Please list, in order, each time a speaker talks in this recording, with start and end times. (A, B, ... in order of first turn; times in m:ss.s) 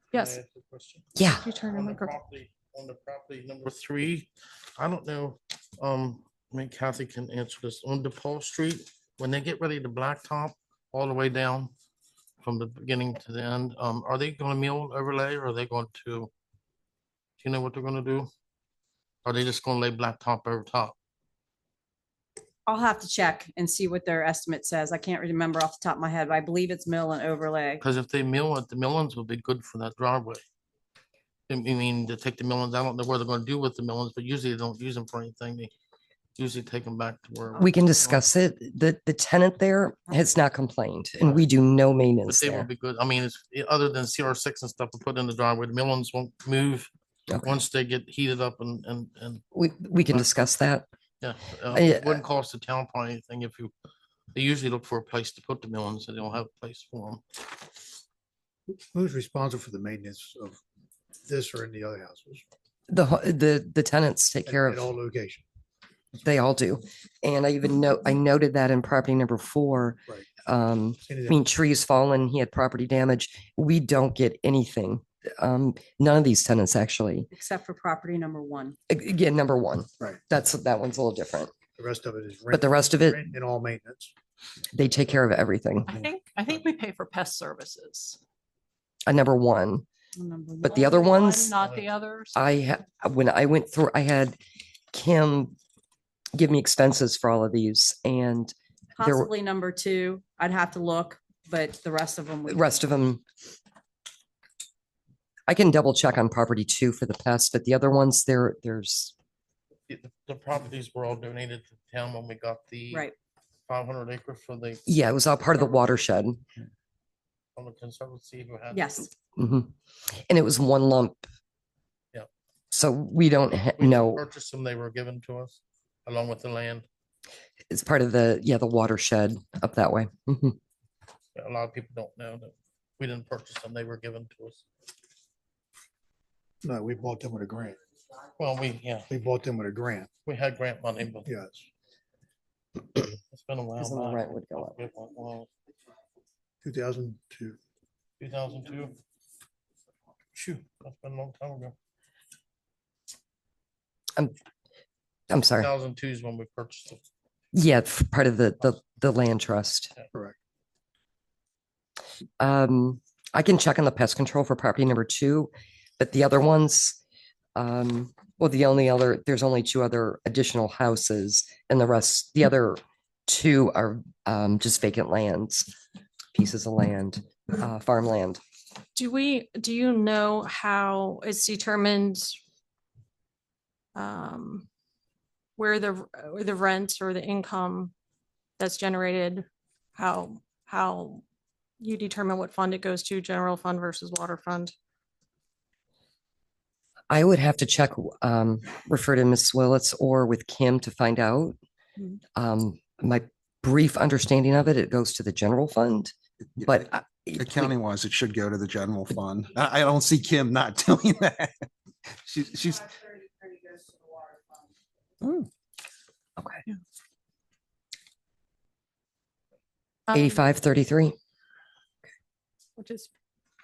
0:00.1-0:01.1 A
0:00.1-0:00.4 B
0:01.2-0:01.4 C
0:01.4-0:02.1 B
0:01.7-0:11.7 A
0:12.4-0:16.3 A
0:17.4-0:18.3 A
0:19.2-0:21.0 A
0:22.7-0:27.8 D
0:27.8-0:30.4 A
0:31.5-0:35.7 A
0:36.4-0:38.2 A
0:37.6-0:42.7 C
0:42.2-0:46.9 A
0:47.3-0:47.6 C
0:47.4-0:49.4 A
0:49.5-0:50.8 C
0:50.1-0:50.5 A
0:51.2-0:53.7 A
0:51.7-0:52.2 C
0:54.3-0:57.4 A
0:58.7-1:00.6 E
1:01.2-1:02.4 E
1:02.9-1:04.9 C
1:04.4-1:05.4 E
1:06.2-1:17.3 C
1:11.1-1:11.4 E
1:17.3-1:18.8 D
1:18.9-1:21.5 C
1:21.8-1:24.1 E
1:22.5-1:23.3 C
1:24.7-1:25.9 C
1:25.8-1:28.2 F
1:29.0-1:29.8 C
1:30.1-1:30.9 D
1:30.6-1:31.5 C
1:30.6-1:32.4 F
1:32.3-1:34.4 C
1:34.9-1:35.6 C
1:36.3-1:39.3 C
1:39.0-1:42.8 D
1:42.5-1:43.2 C
1:45.5-1:49.1 C
1:49.9-1:53.1 A
1:53.7-1:54.8 A
1:54.8-1:56.4 C
1:57.6-1:58.9 A
1:58.7-1:59.1 D
1:59.4-1:59.7 C
2:00.3-2:01.3 C
2:02.7-2:04.2 C
2:03.8-2:06.8 A
2:07.7-2:10.6 C
2:11.4-2:14.6 A
2:16.6-2:17.8 E
2:18.4-2:19.1 A
2:19.1-2:20.1 E
2:20.2-2:21.3 A
2:21.2-2:21.7 E
2:22.9-2:25.5 A
2:23.8-2:24.8 C
2:26.6-2:27.6 E
2:28.2-2:28.9 A
2:30.3-2:31.7 A
2:35.3-2:35.7 C
2:35.5-2:37.0 A
2:37.5-2:39.9 C
2:42.4-2:47.0 C
2:47.5-2:55.7 C
2:56.3-2:58.4 C
2:58.9-3:02.4 B
3:03.9-3:04.7 B
3:05.6-3:07.9 B
3:08.6-3:11.2 B
3:11.8-3:14.7 B
3:17.1-3:21.6 C
3:22.4-3:26.1 C
3:26.6-3:33.0 G
3:26.6-3:27.7 C
3:40.1-3:40.4 B
3:40.1-3:41.2 C
3:42.8-3:43.1 B